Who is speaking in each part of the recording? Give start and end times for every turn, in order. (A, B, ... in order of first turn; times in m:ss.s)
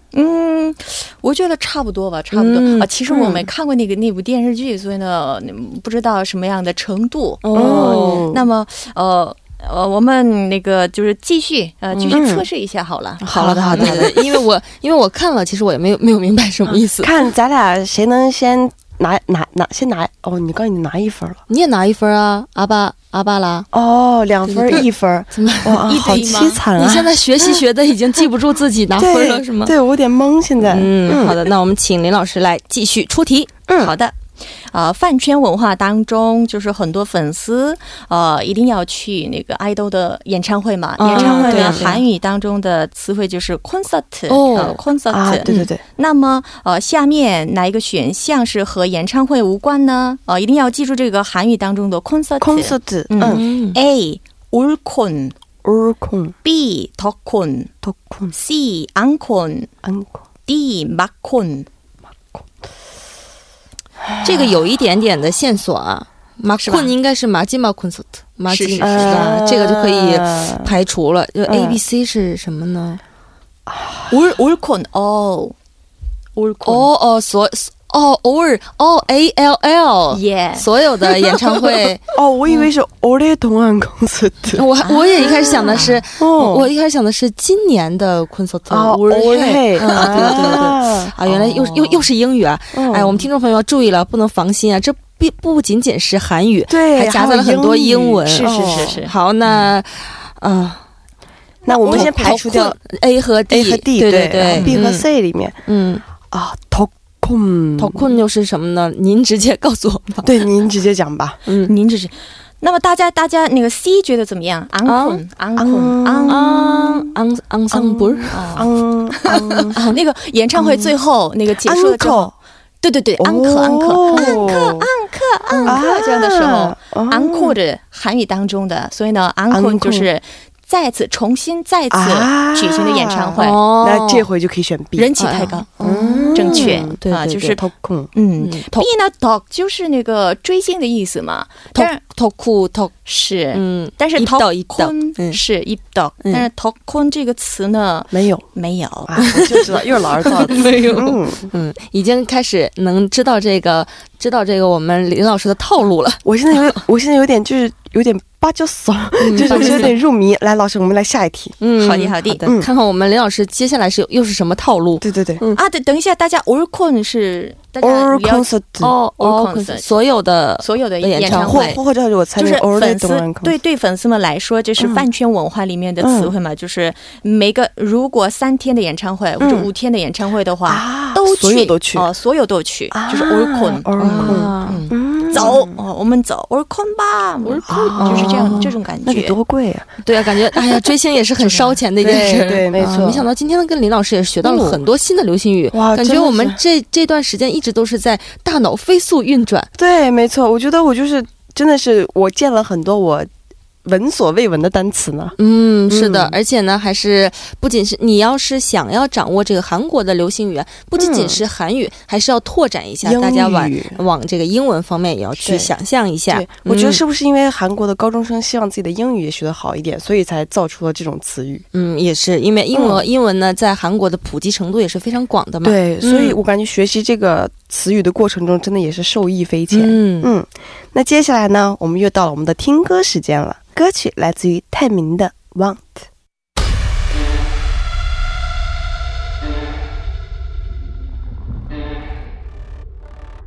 0:00.1-0:14.2 A
0:02.3-0:03.3 B
0:07.4-0:08.3 B
0:07.6-0:08.5 C
0:12.0-0:12.4 C
0:13.2-0:14.3 C
0:13.3-0:17.2 B
0:16.7-0:21.4 C
0:21.5-0:23.7 B
0:23.7-0:27.6 C
0:24.5-0:29.7 B
0:25.8-0:26.6 A
0:29.0-0:31.4 C
0:30.6-0:33.6 B
0:33.7-0:33.9 C
0:33.8-0:55.4 A
0:41.0-0:42.0 B
0:41.1-0:41.9 C
0:44.3-0:44.8 B
0:44.6-0:45.8 C
0:52.4-0:53.4 C
0:53.2-0:53.8 B
0:55.6-0:56.4 C
0:56.4-0:57.7 A
0:57.8-0:58.3 C
0:58.3-0:59.7 A
0:59.8-1:00.2 C
1:00.5-1:01.7 A
1:02.2-1:02.5 C
1:04.0-1:04.6 C
1:04.2-1:13.0 B
1:06.6-1:06.9 A
1:08.5-1:09.2 A
1:08.8-1:10.7 C
1:11.5-1:11.8 C
1:13.7-1:14.1 C
1:14.1-1:15.6 A
1:16.4-1:16.9 A
1:16.7-1:22.1 B
1:20.1-1:20.7 A
1:22.1-1:24.6 C
1:24.6-1:40.8 B
1:24.8-1:26.0 A
1:25.2-1:25.6 C
1:26.2-1:26.7 C
1:28.7-1:31.7 C
1:29.8-1:30.7 A
1:31.3-1:32.0 A
1:32.7-1:33.3 C
1:36.7-1:39.0 C
1:38.3-1:39.1 A
1:41.7-1:42.4 A
1:41.7-1:42.8 C
1:41.9-1:45.1 B
1:43.5-1:45.6 C
1:44.5-1:44.8 A
1:45.7-1:46.1 B
1:46.2-1:48.1 C
1:47.8-1:50.4 B
1:50.2-1:51.4 C
1:51.5-1:51.7 B
1:51.6-1:56.4 A
1:54.9-1:55.2 B
1:55.6-1:57.2 C
1:56.3-1:58.6 B
1:57.7-1:59.8 C
1:58.3-2:13.6 A
2:00.6-2:00.9 C
2:01.6-2:02.3 C
2:03.2-2:04.9 C
2:05.5-2:05.8 B
2:05.7-2:07.6 C
2:09.5-2:10.1 C
2:11.9-2:15.1 C
2:13.4-2:14.3 B
2:15.0-2:15.7 A
2:15.2-2:17.6 B
2:15.8-2:17.0 C
2:16.3-2:17.6 A
2:17.6-2:18.1 C
2:18.2-2:22.0 A
2:18.4-2:18.9 B
2:21.7-2:22.9 B
2:23.0-2:29.2 A
2:23.5-2:25.4 B
2:28.1-2:28.5 C
2:29.1-2:31.5 C
2:29.3-2:29.7 B
2:30.4-2:36.8 B
2:36.2-2:41.6 C
2:39.2-2:39.9 B
2:39.5-2:39.8 A
2:41.6-2:45.6 B
2:41.8-2:42.4 A
2:45.0-2:45.4 C
2:45.6-2:48.5 A
2:47.8-2:48.9 C
2:48.8-2:51.8 B
2:49.2-2:49.9 A
2:50.6-2:51.8 A
2:51.3-2:53.6 C
2:52.4-3:09.4 A
2:54.8-2:55.0 C
2:56.0-2:56.3 C
2:59.4-2:59.7 C
3:00.6-3:02.1 C
3:02.9-3:05.8 C
3:04.0-3:04.8 B
3:07.4-3:08.7 B
3:07.7-3:10.6 C
3:10.0-3:19.7 B
3:11.4-3:11.8 A
3:12.0-3:13.3 C
3:14.4-3:14.8 C
3:15.7-3:16.6 C
3:19.8-3:23.3 C
3:23.8-3:25.4 C
3:25.4-3:37.0 B
3:25.9-3:26.4 C
3:31.0-3:31.4 C
3:33.0-3:34.0 C
3:35.4-3:35.7 C
3:36.3-3:41.6 C
3:41.7-3:46.4 B
3:42.7-3:43.0 C
3:45.6-3:56.1 C
3:49.7-3:50.3 B